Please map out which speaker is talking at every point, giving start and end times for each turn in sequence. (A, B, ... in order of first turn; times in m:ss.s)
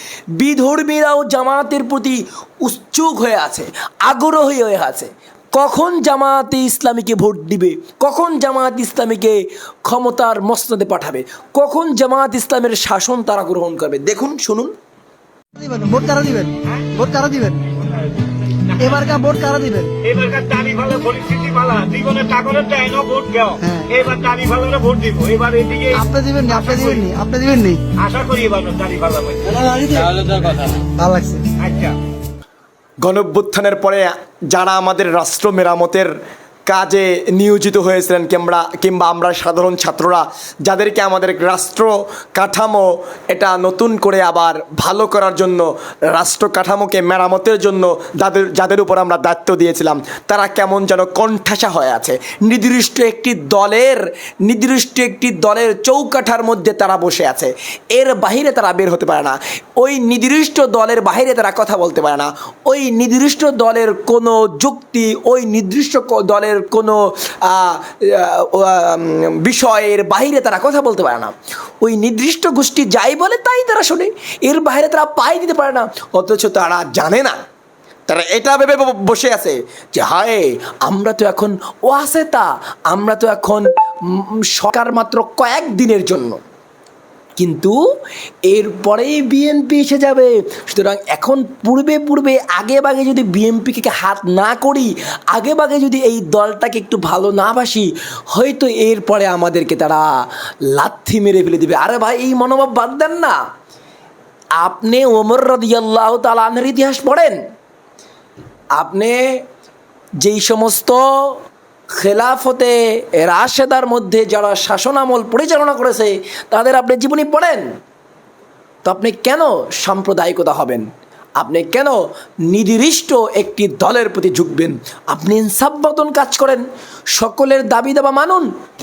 0:00.4-0:14.7 A
0:15.6-0:17.7 B
0:18.8-0:19.9 B
0:20.0-0:26.0 C
0:23.6-0:23.9 B
0:25.9-0:27.8 B
0:28.0-0:30.8 C
0:31.0-0:31.5 B
0:31.6-0:32.0 C
0:33.0-0:36.1 A
0:36.7-1:17.4 A
1:18.1-1:26.4 A
1:27.4-1:27.8 A
1:28.5-1:43.4 A
1:44.6-1:47.4 A
1:48.8-1:49.3 A
1:50.2-1:51.4 A
1:52.0-1:57.7 A
1:58.8-2:00.9 A
2:01.4-2:08.5 A